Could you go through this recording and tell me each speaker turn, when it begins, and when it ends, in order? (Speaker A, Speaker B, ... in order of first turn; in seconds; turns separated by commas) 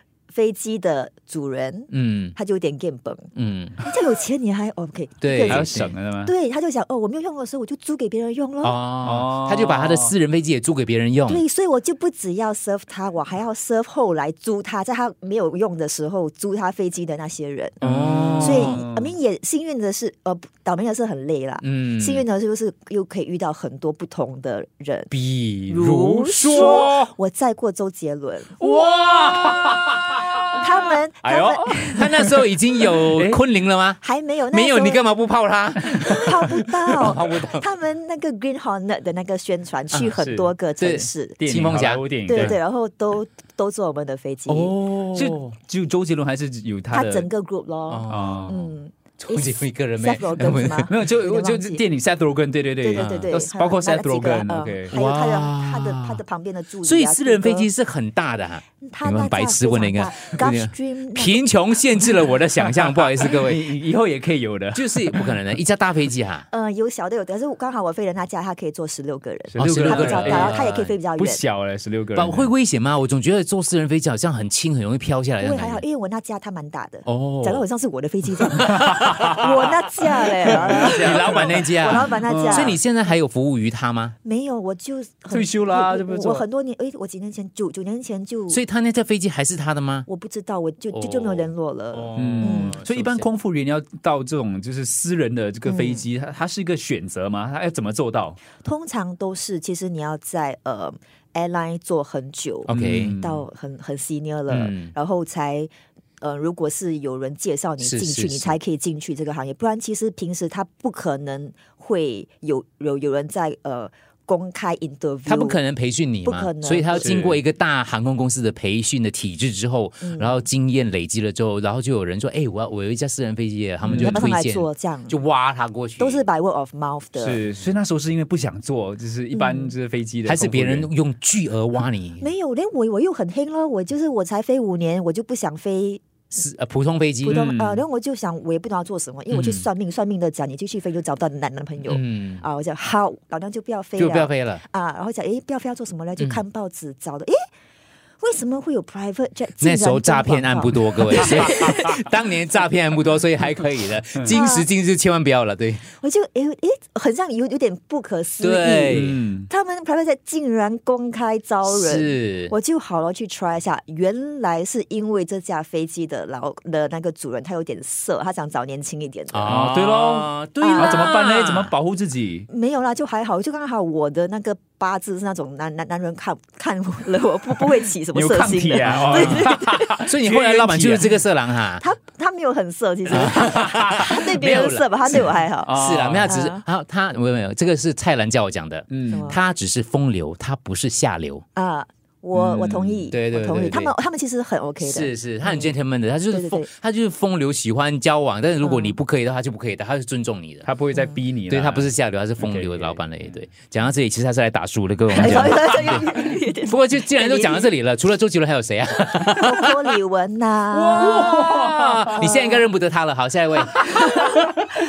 Speaker A: 0.3-3.3, Speaker B: 1.9-2.4, Speaker B: 3.3-3.8, Speaker A: 3.8-8.8, Speaker B: 5.2-5.9, Speaker C: 5.4-6.3, Speaker B: 8.6-11.4, Speaker C: 9.0-10.1, Speaker A: 11.3-17.8, Speaker C: 17.8-19.1, Speaker B: 17.8-18.8, Speaker A: 18.4-25.1, Speaker B: 21.6-22.2, Speaker B: 25.1-27.1, Speaker A: 25.7-28.8, Speaker C: 26.6-26.9, Speaker C: 28.6-33.4, Speaker B: 29.1-29.6, Speaker A: 30.5-31.9, Speaker B: 31.9-34.0, Speaker A: 34.0-35.0, Speaker B: 34.5-37.6, Speaker C: 35.9-36.2, Speaker A: 36.0-41.4, Speaker C: 40.0-40.5, Speaker B: 40.8-42.6, Speaker C: 41.4-42.6, Speaker A: 42.2-44.8, Speaker B: 44.5-45.5, Speaker C: 45.1-47.3, Speaker A: 46.9-51.8, Speaker B: 47.9-48.5, Speaker C: 48.1-48.7, Speaker B: 49.2-50.9, Speaker C: 50.4-54.9, Speaker A: 52.8-57.7, Speaker B: 52.9-53.3, Speaker B: 54.9-56.2, Speaker B: 56.8-63.7, Speaker A: 58.8-61.4, Speaker C: 62.6-65.4, Speaker B: 64.7-66.5, Speaker A: 66.5-71.4, Speaker C: 69.5-72.5, Speaker B: 69.6-70.9, Speaker B: 72.1-75.8, Speaker A: 75.4-82.8, Speaker B: 77.0-77.6, Speaker B: 78.4-79.7, Speaker C: 79.0-79.3, Speaker B: 80.4-84.2, Speaker C: 80.5-82.8, Speaker A: 84.2-88.6, Speaker C: 85.3-86.4, Speaker B: 88.5-90.1, Speaker A: 90.1-92.8, Speaker B: 90.9-93.3, Speaker C: 92.2-98.4, Speaker A: 95.7-96.0, Speaker A: 98.6-115.6, Speaker B: 102.7-103.2, Speaker C: 102.7-103.4, Speaker B: 104.5-104.9, Speaker B: 107.8-108.6, Speaker B: 115.3-126.2, Speaker A: 116.2-117.1, Speaker C: 116.9-117.4, Speaker A: 120.0-120.4, Speaker C: 123.8-124.3, Speaker A: 123.9-125.2, Speaker A: 126.0-127.4, Speaker C: 127.1-130.9, Speaker A: 129.3-129.7, Speaker B: 130.2-132.3, Speaker A: 132.2-136.0, Speaker B: 136.3-137.4, Speaker A: 137.2-147.4, Speaker C: 137.2-137.8, Speaker B: 139.3-139.7, Speaker B: 141.8-142.4, Speaker B: 144.0-144.6, Speaker A: 148.2-151.9, Speaker B: 149.6-155.9, Speaker A: 154.3-154.7, Speaker A: 155.9-169.6, Speaker B: 158.4-159.2, Speaker C: 158.9-159.5, Speaker B: 161.6-162.5, Speaker B: 169.3-171.7, Speaker C: 169.4-172.5, Speaker A: 170.6-171.1, Speaker A: 172.5-180.0, Speaker C: 178.1-181.1, Speaker B: 178.8-179.5, Speaker B: 180.0-181.8, Speaker A: 181.8-186.6, Speaker B: 183.1-191.4, Speaker C: 183.2-184.1, Speaker C: 185.1-186.3, Speaker C: 188.9-189.3, Speaker A: 189.1-189.4, Speaker A: 191.5-195.7, Speaker C: 192.3-193.1, Speaker B: 193.1-193.9, Speaker B: 194.8-200.7, Speaker A: 196.3-196.7, Speaker A: 198.6-199.0, Speaker C: 200.6-203.0, Speaker A: 200.9-201.2, Speaker B: 201.5-209.8, Speaker A: 205.1-207.7, Speaker C: 205.2-206.0, Speaker A: 209.3-211.3, Speaker B: 210.8-214.7, Speaker C: 210.9-212.3, Speaker A: 212.2-212.7